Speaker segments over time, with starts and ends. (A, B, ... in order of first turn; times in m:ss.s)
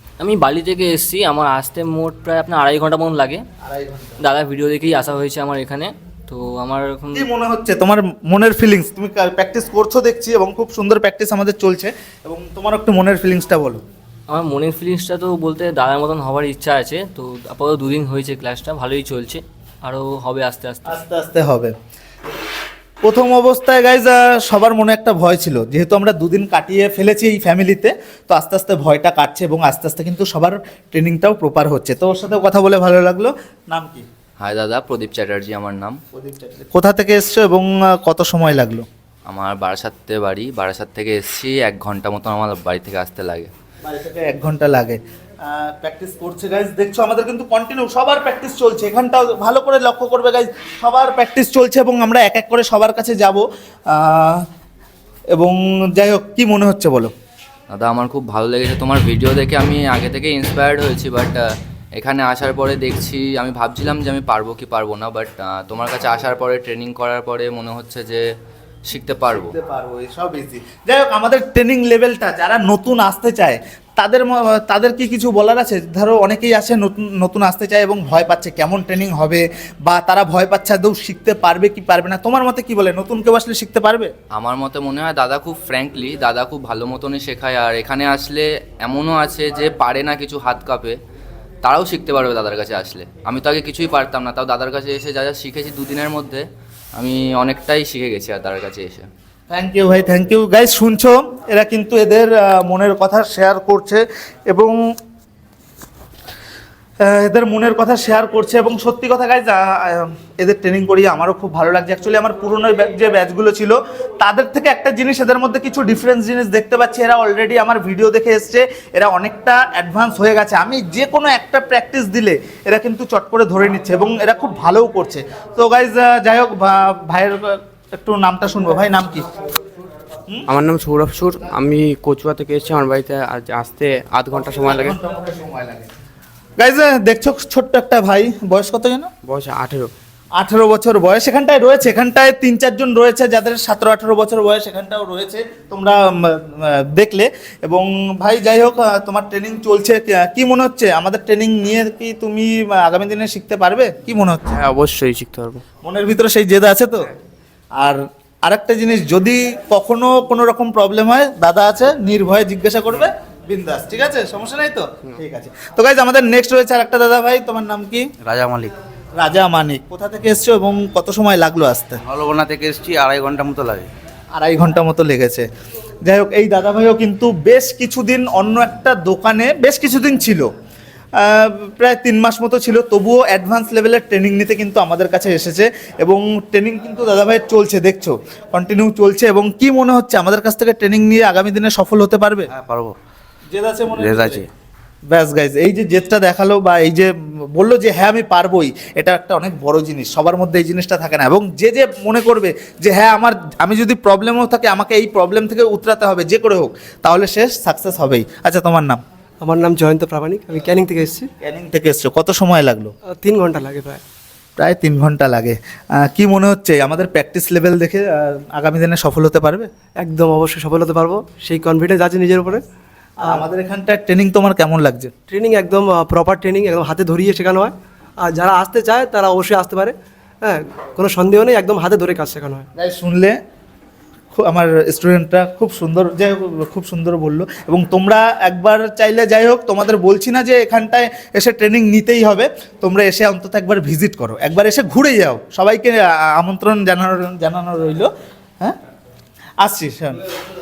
0:00.2-0:03.4 A
0:03.6-0:04.2 B
0:04.2-0:07.3 A
0:07.1-0:13.8 B
0:14.3-0:21.0 A
0:20.9-0:21.7 B
0:23.0-0:34.0 B
0:34.4-0:36.0 C
0:36.1-0:38.8 B
0:39.3-0:43.5 C
0:43.8-0:54.4 B
0:55.4-0:57.1 B
0:57.7-1:01.4 C
1:02.0-1:08.2 C
1:08.9-1:09.5 C
1:09.3-1:24.1 B
1:24.4-1:31.0 C
1:31.6-1:36.4 C
1:37.0-1:39.1 C
1:39.5-1:44.7 B
1:47.0-2:09.3 B
2:10.5-2:14.9 D
2:14.3-2:15.9 B
2:16.6-2:19.1 B
2:19.3-2:19.9 D
2:20.4-2:34.6 B
2:34.6-2:35.6 D
2:35.8-2:37.1 B
2:37.8-2:48.1 B
2:48.2-2:48.7 E
2:49.2-2:52.0 B
2:52.1-2:53.9 E
2:54.4-2:55.5 B
2:56.0-3:00.5 B
3:01.2-3:12.5 B
3:12.5-3:13.0 E
3:13.5-3:14.4 B
3:14.0-3:14.4 E
3:15.1-3:29.0 B
3:29.4-3:31.3 F
3:31.4-3:32.9 B
3:33.2-3:34.0 F
3:34.6-3:39.7 B
3:40.0-3:42.6 F
3:43.2-3:45.1 B
3:45.3-3:52.6 F
3:52.8-3:53.4 B
3:54.4-4:08.1 B
4:09.6-4:10.3 B